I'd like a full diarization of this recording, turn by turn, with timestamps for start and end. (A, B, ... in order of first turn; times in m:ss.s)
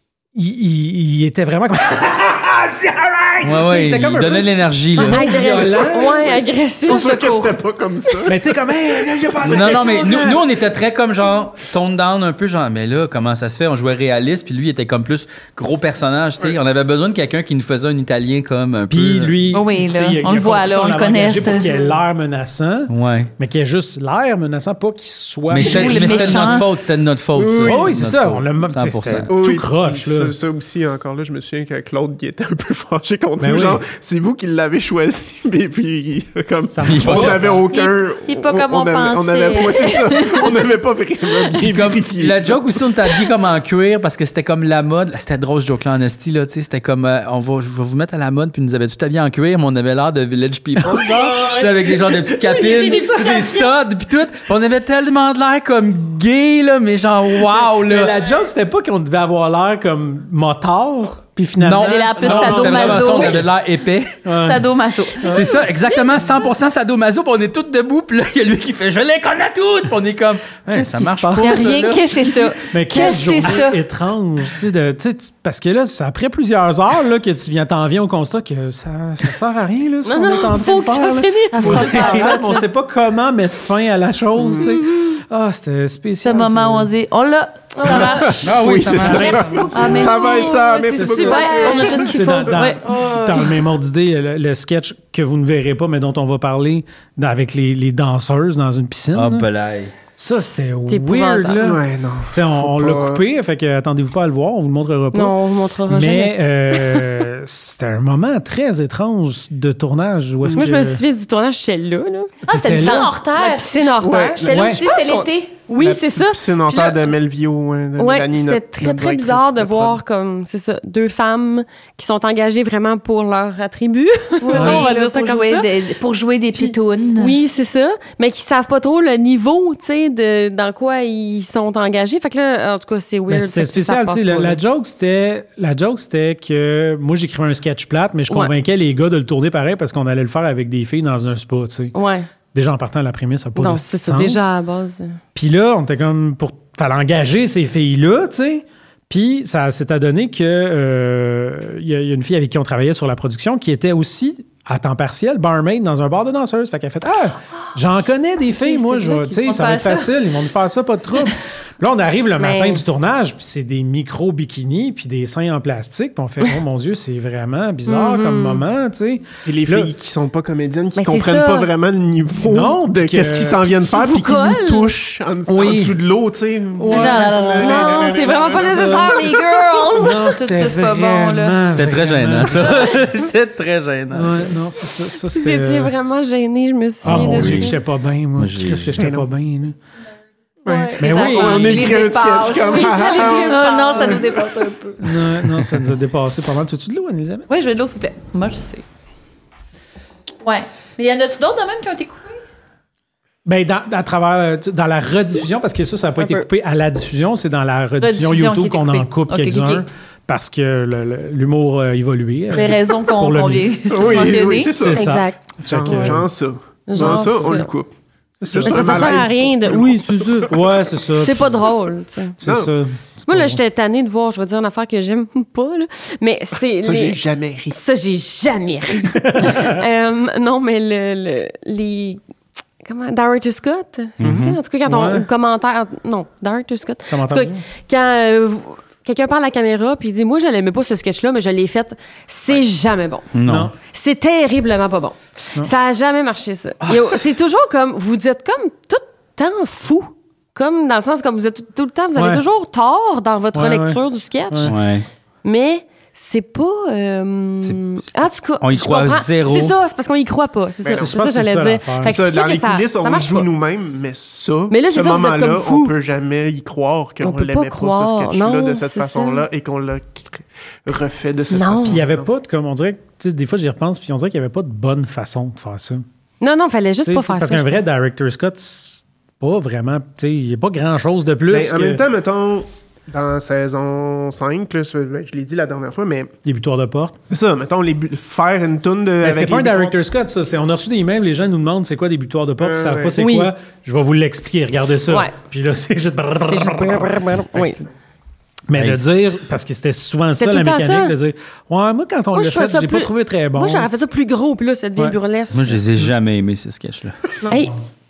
0:00.4-0:06.4 A
0:03.4-0:05.7 B
0:05.0-0:07.2 C
0:06.8-0:08.5 D
0:06.8-0:07.6 E
0:08.3-0:10.4 A
0:09.4-0:10.3 D
0:09.4-0:19.4 B
0:18.9-0:26.6 A
0:19.5-0:21.7 E
0:22.9-0:23.3 B
0:25.5-0:29.3 B
0:25.6-0:26.7 E
0:27.4-0:27.9 D
0:27.6-0:30.4 A
0:29.3-0:42.8 D
0:33.4-0:33.8 A
0:36.7-0:37.6 A
0:36.8-0:37.5 B
0:37.7-0:40.5 E
0:41.6-0:58.2 B
0:50.8-0:53.6 A
0:57.6-1:03.5 A
1:01.6-1:04.2 B
1:01.8-1:03.4 E
1:04.2-1:04.6 A
1:04.4-1:05.4 E
1:05.2-1:05.6 A
1:05.2-1:12.4 B
1:05.3-1:06.1 C
1:10.7-1:11.9 A
1:11.4-1:13.8 E
1:12.7-1:26.9 A
1:20.0-1:22.6 C
1:21.5-1:22.6 E
1:24.6-1:25.2 C
1:26.2-1:28.5 E
1:27.9-1:32.5 D
1:28.0-1:29.4 B
1:28.9-1:30.0 A
1:29.1-1:32.3 C
1:29.7-1:32.8 E
1:31.0-1:39.5 A
1:32.8-1:33.5 C
1:39.2-1:40.0 B
1:40.2-1:51.0 A
1:40.3-1:41.7 C
1:41.6-1:43.2 D
1:45.1-1:47.2 C
1:50.4-1:50.7 D
1:50.6-1:52.3 C
1:52.5-1:53.2 A
1:52.5-1:55.6 E
1:53.3-1:56.8 C
1:54.0-1:55.1 D
1:54.4-1:54.8 A
1:55.8-2:00.0 D
1:58.0-2:05.7 C
2:04.4-2:07.4 E
2:04.5-2:04.9 A
2:06.5-2:14.6 C
2:13.3-2:22.0 A
2:21.9-2:22.3 C
2:22.5-2:24.5 A
2:23.6-2:25.2 C
2:25.3-2:49.9 A
2:38.6-2:39.4 C
2:39.4-2:40.1 E
2:42.4-2:42.8 C
2:47.9-2:48.6 C
2:49.5-2:59.3 D
2:51.0-2:51.7 C
2:52.4-2:53.7 A
2:53.8-2:54.9 C
2:55.5-2:56.0 A
2:56.8-2:59.1 A
2:56.9-2:58.1 E
2:57.5-3:00.4 C
2:59.9-3:03.0 A
3:00.2-3:01.6 E
3:01.7-3:04.6 B
3:04.1-3:05.9 A
3:05.3-3:07.8 C
3:07.0-3:07.7 B
3:07.0-3:09.8 A
3:08.4-3:09.1 B
3:09.0-3:09.3 D
3:10.6-3:11.1 C
3:10.6-3:14.4 D
3:11.0-3:15.2 E
3:11.0-3:11.8 A
3:12.6-3:14.4 C
3:15.0-3:17.5 A
3:17.5-3:18.8 E
3:20.4-3:22.4 E
3:23.5-3:36.3 A
3:26.2-3:26.4 C
3:28.0-3:29.9 E
3:32.5-3:34.8 E
3:33.9-3:37.9 D
3:34.9-3:36.1 C
3:36.9-3:37.7 C
3:37.0-3:37.5 A
3:38.4-3:39.2 A
3:38.5-3:40.5 D
3:38.6-3:40.5 C
3:40.5-3:41.6 A
3:41.1-3:42.4 C
3:42.4-3:43.6 A
3:42.4-3:42.7 D
3:43.3-3:52.2 C
3:46.8-3:47.8 D
3:49.2-3:49.8 A
3:52.8-4:14.8 C
3:54.2-3:54.6 B
3:54.2-3:55.3 A
3:57.1-3:57.6 A
4:03.3-4:03.7 B
4:03.4-4:03.7 A
4:12.2-4:12.4 A
4:13.5-4:14.7 A
4:14.6-4:15.1 B
4:15.4-4:23.5 C
4:17.6-4:18.1 B
4:18.6-4:19.7 B
4:20.8-4:21.2 D
4:20.9-4:22.2 A
4:22.0-4:32.3 D
4:24.7-4:25.9 C
4:27.2-4:29.4 C
4:31.5-4:32.0 C
4:31.9-4:36.0 A
4:36.4-4:37.9 C
4:37.0-4:42.0 A
4:41.5-4:46.3 D
4:46.4-4:47.2 A
4:47.3-4:50.0 D
4:49.2-4:57.8 A
4:52.6-4:53.2 D
4:53.2-4:53.5 C
4:55.1-4:55.3 C
4:56.4-4:57.8 C
4:58.7-5:03.9 A
4:58.8-4:59.0 B
5:00.3-5:01.2 C
5:02.3-5:05.8 C
5:05.5-5:07.2 B
5:07.4-5:07.8 C